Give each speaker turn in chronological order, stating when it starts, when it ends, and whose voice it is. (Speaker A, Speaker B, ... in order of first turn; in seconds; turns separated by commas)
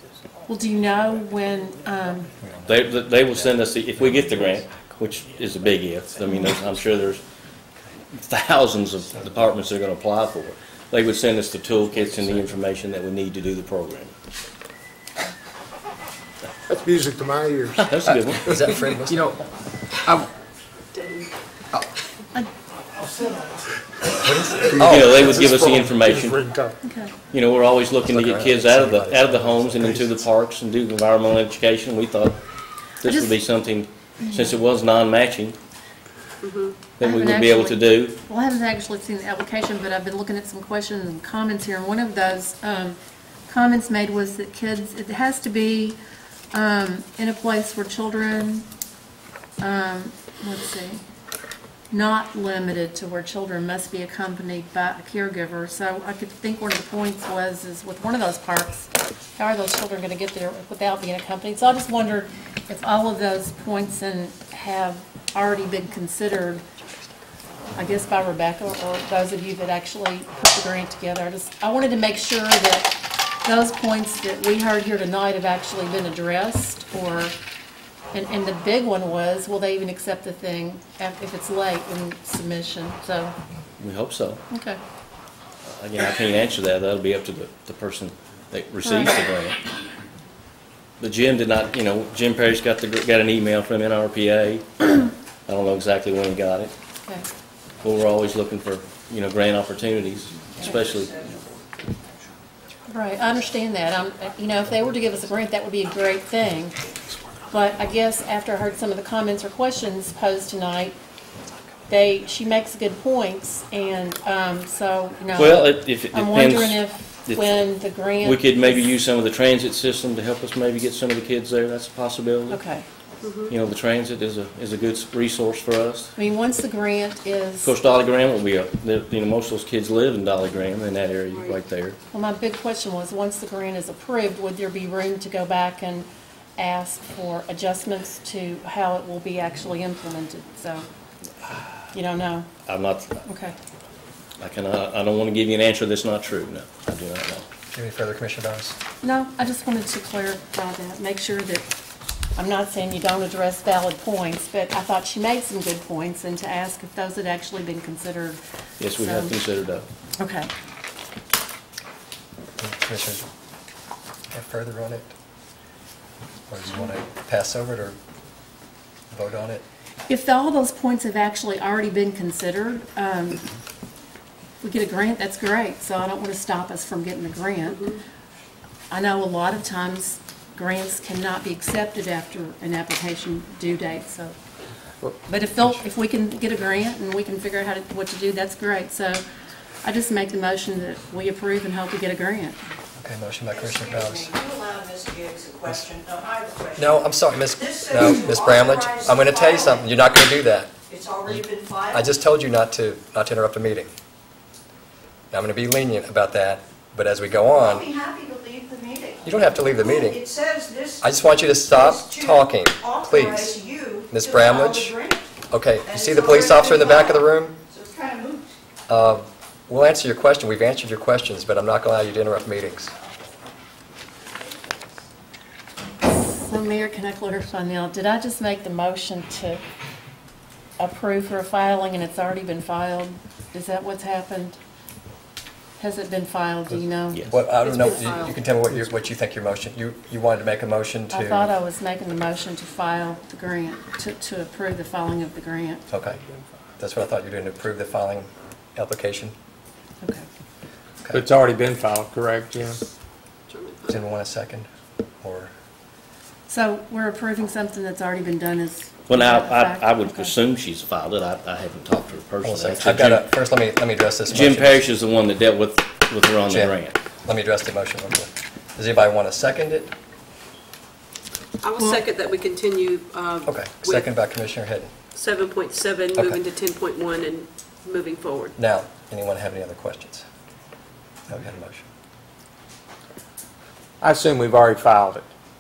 Speaker A: 0.5-2.3, Speaker B: 2.4-2.8, Speaker C: 2.7-7.2, Speaker B: 4.2-4.5, Speaker C: 8.1-14.1, Speaker B: 12.1-12.5, Speaker D: 16.7-19.2, Speaker C: 17.7-18.8, Speaker B: 18.1-19.4, Speaker E: 20.9-21.3, Speaker D: 23.1-23.4, Speaker B: 24.1-25.4, Speaker D: 24.6-26.8, Speaker C: 24.8-26.4, Speaker A: 26.8-27.1, Speaker C: 27.3-32.4, Speaker B: 28.1-30.2, Speaker C: 33.0-35.6, Speaker A: 33.1-33.4, Speaker A: 34.2-34.5, Speaker E: 36.4-36.8, Speaker A: 37.0-43.0, Speaker C: 37.0-38.2, Speaker A: 43.5-46.0, Speaker A: 46.5-48.7, Speaker A: 49.6-51.0, Speaker A: 51.9-66.7, Speaker A: 67.8-77.3, Speaker A: 78.1-83.3, Speaker C: 83.8-84.4, Speaker A: 84.5-84.8, Speaker C: 85.7-89.6, Speaker A: 88.8-89.2, Speaker C: 91.0-94.9, Speaker C: 95.5-96.7, Speaker C: 97.8-101.3, Speaker A: 102.9-106.8, Speaker A: 107.5-111.0, Speaker A: 111.9-118.8, Speaker C: 115.3-117.6, Speaker C: 118.2-122.6, Speaker A: 122.5-122.9, Speaker E: 123.2-123.5, Speaker C: 123.5-126.1, Speaker A: 126.2-127.8, Speaker C: 127.6-132.0, Speaker E: 131.3-131.6, Speaker A: 132.1-140.9, Speaker A: 141.9-142.5, Speaker C: 142.7-143.2, Speaker A: 143.2-143.6, Speaker C: 144.4-147.5, Speaker B: 147.7-148.8, Speaker A: 149.0-151.7, Speaker A: 152.4-158.4, Speaker C: 158.8-159.9, Speaker A: 158.9-159.4, Speaker A: 160.2-160.5, Speaker B: 162.6-163.2, Speaker B: 164.3-165.1, Speaker B: 166.5-168.0, Speaker B: 169.1-169.6, Speaker A: 170.1-173.5, Speaker A: 174.6-177.9, Speaker A: 178.9-184.3, Speaker A: 185.3-189.2, Speaker A: 189.8-192.6, Speaker B: 193.0-194.4, Speaker F: 193.7-196.9, Speaker B: 196.8-200.7, Speaker F: 197.7-199.8, Speaker F: 200.9-202.0, Speaker B: 201.3-203.9, Speaker B: 205.3-207.9, Speaker F: 207.7-209.2, Speaker B: 209.2-210.2, Speaker F: 209.8-211.0, Speaker B: 211.0-215.0, Speaker F: 211.8-215.3, Speaker B: 215.5-217.6, Speaker F: 215.9-217.2, Speaker F: 217.7-218.5, Speaker B: 218.9-222.9, Speaker A: 226.0-229.6, Speaker A: 230.8-234.6, Speaker A: 235.8-238.1, Speaker B: 236.7-241.5, Speaker C: 237.1-237.4, Speaker E: 237.7-238.4, Speaker A: 241.1-245.8, Speaker B: 245.9-246.2, Speaker B: 246.8-249.3, Speaker G: 251.1-252.8, Speaker E: 253.5-254.0, Speaker B: 253.9-254.7, Speaker B: 255.2-255.5, Speaker A: 256.5-260.3, Speaker C: 259.1-263.3, Speaker B: 262.4-264.8, Speaker C: 264.3-267.0, Speaker B: 266.5-269.9, Speaker E: 271.6-274.1, Speaker A: 271.7-272.1, Speaker B: 273.4-274.9, Speaker E: 275.1-278.5, Speaker B: 276.1-276.4, Speaker B: 278.6-280.2, Speaker B: 281.3-281.9, Speaker G: 284.0-285.3